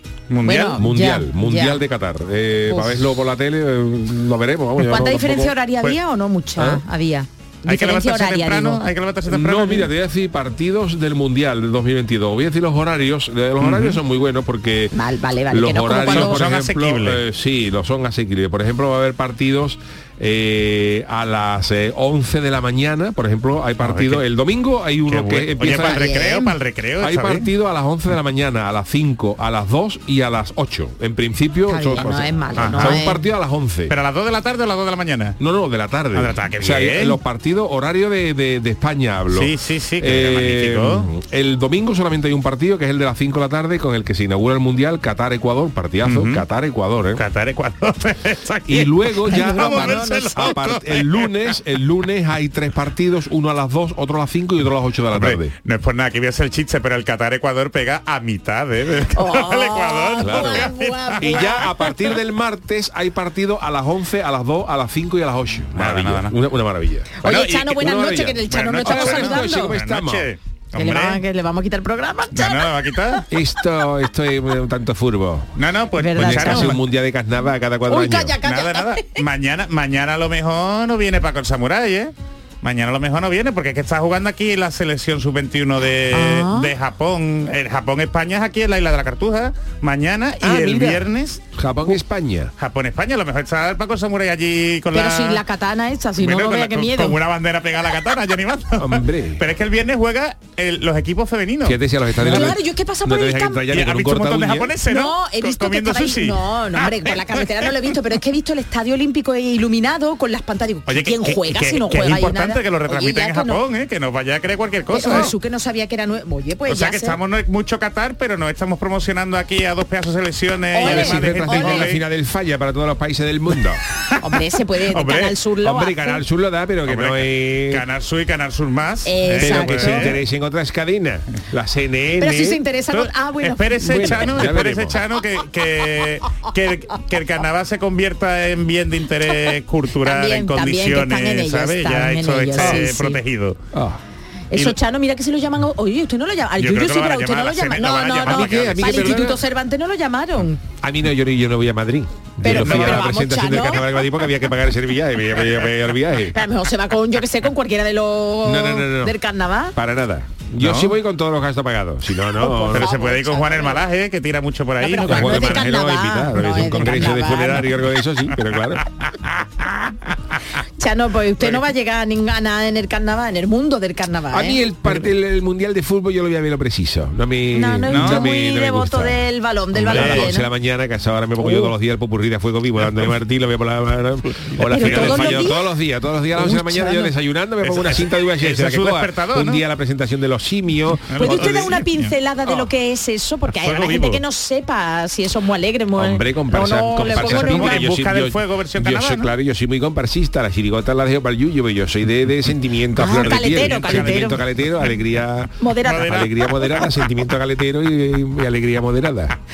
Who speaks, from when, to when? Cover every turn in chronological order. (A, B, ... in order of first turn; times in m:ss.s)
0:00.3-0:00.8 A
0:00.4-0:01.8 B
0:00.7-0:06.0 C
0:02.7-0:03.0 B
0:04.8-0:08.8 B
0:06.6-0:06.8 C
0:07.6-0:09.9 A
0:09.3-0:14.9 C
0:13.6-0:14.0 A
0:14.9-0:16.4 B
0:15.5-0:26.2 C
0:16.0-0:17.2 A
0:23.8-0:24.2 A
0:25.1-0:27.5 A
0:25.7-0:26.6 B
0:27.0-0:33.9 C
0:31.7-0:33.2 B
0:32.6-0:33.0 A
0:33.9-0:35.4 A
0:35.4-0:47.2 C
0:36.1-0:37.2 A
0:39.3-0:41.1 A
0:46.0-0:46.4 A
0:47.1-0:51.5 A
0:48.7-0:55.5 C
0:49.3-0:50.7 B
0:55.1-1:01.9 A
0:59.1-1:01.7 B
1:00.2-1:10.3 C
1:05.7-1:06.3 A
1:07.2-1:09.8 B
1:07.2-1:07.9 A
1:08.5-1:11.2 A
1:10.7-1:13.2 B
1:12.3-1:13.2 A
1:13.3-1:15.5 C
1:15.6-1:16.8 A
1:16.0-1:16.8 B
1:16.1-1:18.4 C
1:17.9-1:19.2 B
1:18.4-1:32.0 A
1:26.1-1:26.7 B
1:30.4-1:32.5 C
1:32.6-1:35.4 A
1:34.9-1:37.2 B
1:36.2-1:42.5 A
1:38.8-1:39.4 C
1:41.6-1:44.8 C
1:42.2-1:43.7 B
1:43.7-1:47.6 A
1:44.8-1:53.6 B
1:50.9-1:55.3 A
1:54.9-1:57.2 B
1:56.7-2:02.0 A
2:00.7-2:01.9 B
2:00.8-2:03.8 C
2:04.1-2:05.4 A
2:04.2-2:06.2 B
2:05.6-2:07.8 C
2:06.8-2:10.2 A
2:09.0-2:10.2 B
2:09.4-2:12.6 C
2:12.2-2:14.6 B
2:12.9-2:23.6 A
2:13.8-2:15.1 C
2:20.0-2:23.2 B
2:22.6-2:22.8 C
2:23.7-2:24.0 C
2:24.5-2:30.6 B
2:26.6-2:29.3 A
2:28.2-2:29.4 C
2:30.8-2:36.4 C
2:32.4-2:34.1 B
2:32.4-2:33.1 A
2:36.3-2:39.8 B
2:38.4-2:39.2 C
2:39.7-2:42.9 C
2:40.6-2:40.9 A
2:42.4-2:43.8 B
2:42.7-2:45.8 A
2:44.8-2:47.7 B
2:45.0-2:48.8 C
2:46.8-2:47.1 A
2:49.0-2:50.4 A
2:50.8-2:54.6 B
2:54.3-3:11.7 C
2:57.5-3:00.5 B
2:57.9-2:58.2 A
2:59.9-3:00.3 A
3:01.4-3:01.7 B
3:04.4-3:05.5 A
3:04.7-3:05.6 B
3:06.3-3:07.1 B
3:07.6-3:09.6 A
3:11.1-3:12.7 A
3:11.2-3:17.8 B
3:13.5-3:14.2 A
3:16.0-3:29.3 C
3:17.0-3:19.3 A
3:22.9-3:24.4 B
3:23.1-3:24.4 A
3:25.6-3:26.3 B
3:25.8-3:26.8 A